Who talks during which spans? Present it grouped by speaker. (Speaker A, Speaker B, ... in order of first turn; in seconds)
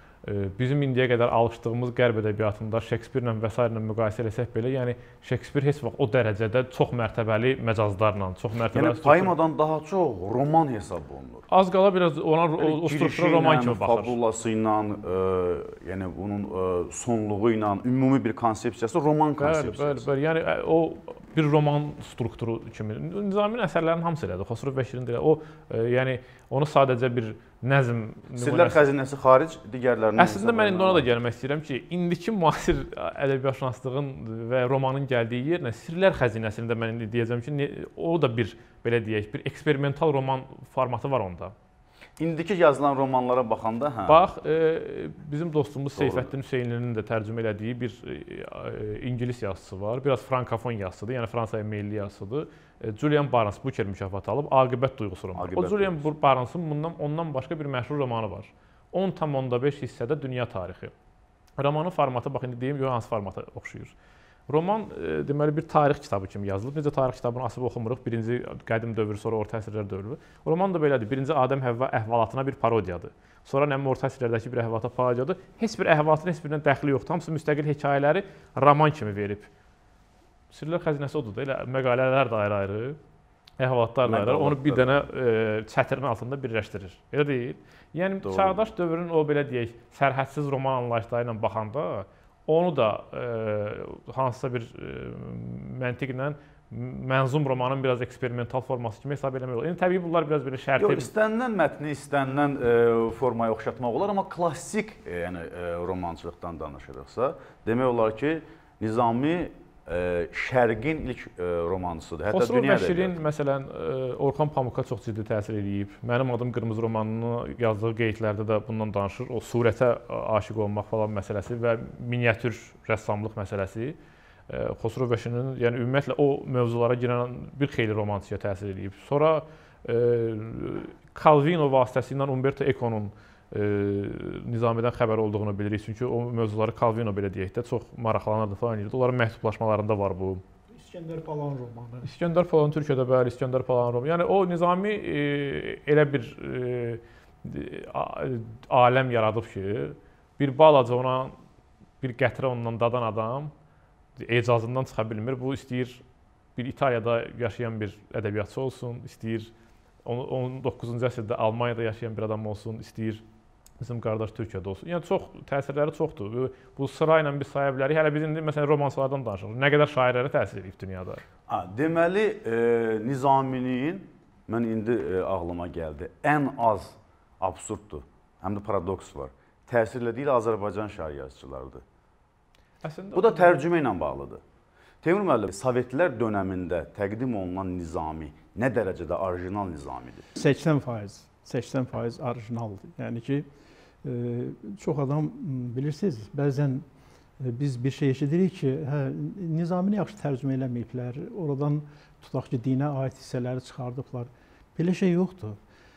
Speaker A: 0.2-9.4, 11.5-14.2, 19.4-28.8, 30.2-41.5, 44.1-60.9, 61.6-63.9, 64.5-79.5, 80.5-83.0, 83.6-101.1, 112.3-124.0, 124.5-140.4, 142.0-151.3, 152.0-153.5, 154.2-156.0, 156.6-159.5, 160.0-163.2, 163.8-171.2, 182.8-183.6
Speaker B: 8.7-11.4, 12.6-20.1, 28.4-31.1, 42.2-44.3, 46.0-46.3, 55.3-56.1, 84.0-85.1, 88.2-88.7, 100.8-113.2, 171.5-181.8, 183.1-184.4, 185.0-190.2
Speaker C: 140.7-142.1, 190.3-193.5, 194.0-196.8, 197.4-205.6